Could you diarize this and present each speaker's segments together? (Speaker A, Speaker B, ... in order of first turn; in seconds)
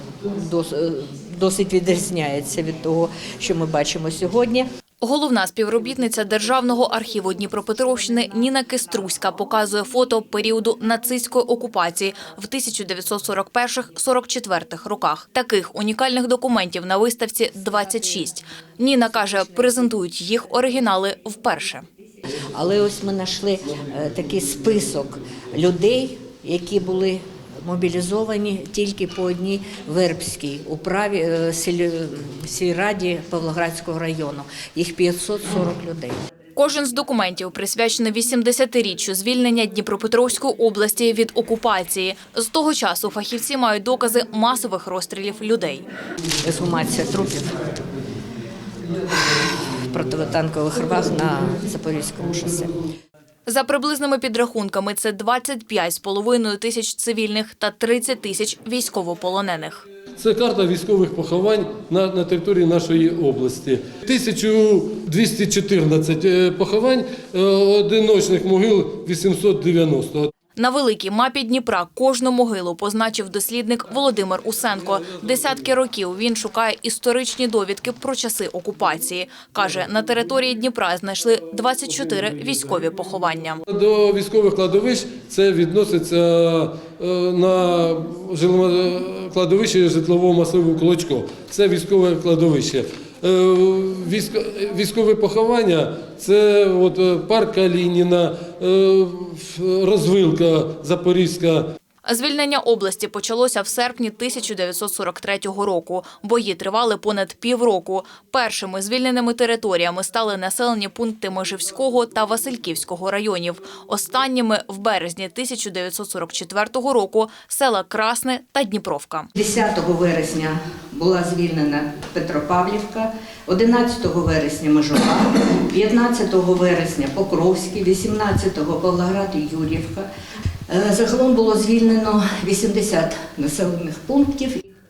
Speaker A: 0.2-4.7, 22.3-36.2, 46.4-47.6, 49.8-52.7, 119.3-130.1, 130.7-134.6
Speaker B: 5.0-21.8, 36.6-45.9, 53.5-59.8, 70.5-83.6, 102.0-119.3
Speaker C: 60.2-70.3, 83.7-101.7